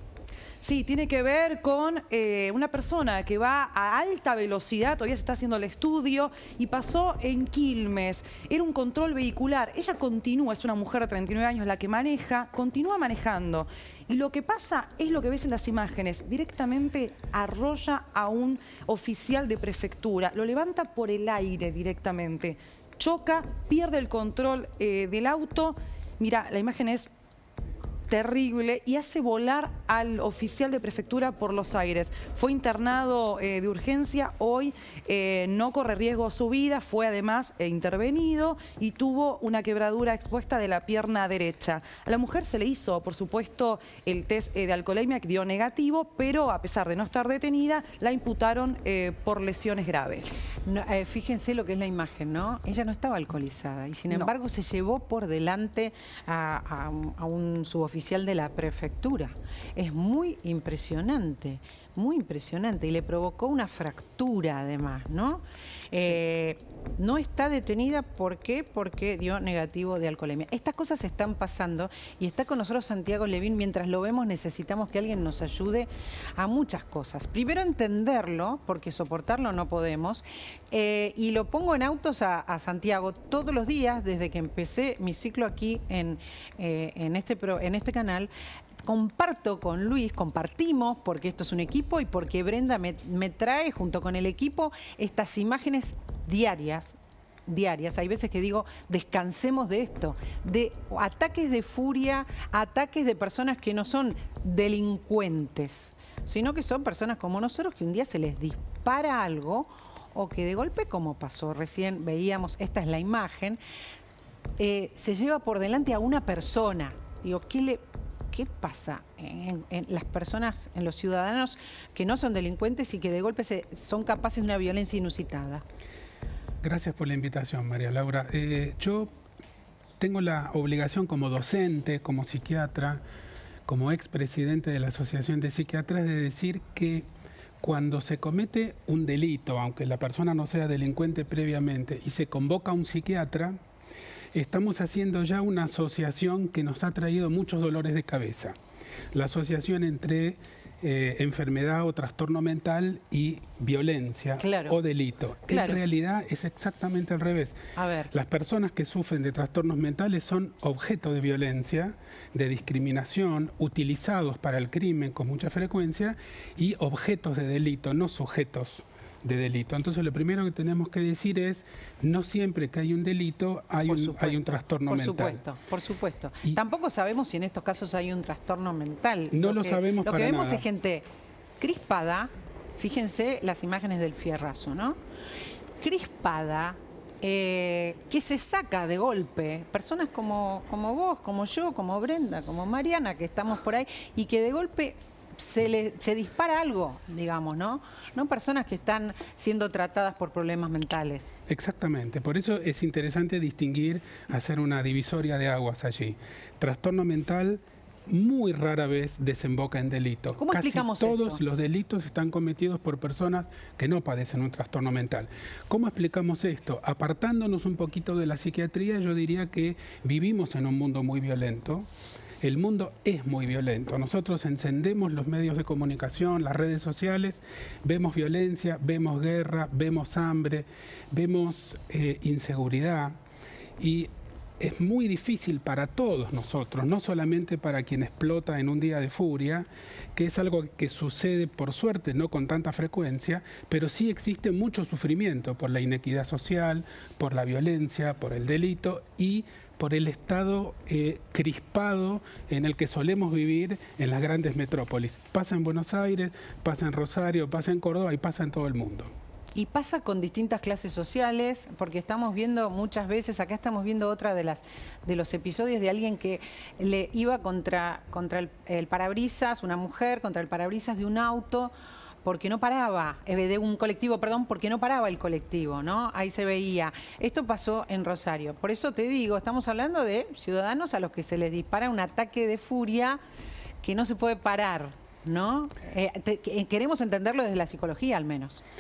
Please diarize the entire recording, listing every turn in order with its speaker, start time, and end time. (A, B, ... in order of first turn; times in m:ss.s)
0:00.6-0:27.1 A
0:28.1-0:50.5 A
0:50.6-1:28.3 B
1:28.8-1:53.6 B
1:54.6-2:05.6 B
2:06.6-2:09.1 C
2:10.0-2:13.0 C
2:13.7-2:17.1 C
2:17.6-2:23.6 C
2:24.3-2:28.6 C
2:29.1-2:37.6 C
2:34.4-2:34.8 B
2:35.5-2:35.8 B
2:37.8-2:38.1 B
2:38.1-2:55.4 C
2:53.9-3:01.1 B
2:59.3-3:00.6 C
3:01.6-3:05.0 B
3:05.8-3:21.3 B
3:21.5-3:41.9 C
3:30.4-3:31.4 B
3:42.4-3:53.2 C
3:53.8-4:19.1 C
4:19.6-4:31.7 B
4:32.2-4:43.2 B
4:43.8-4:48.6 B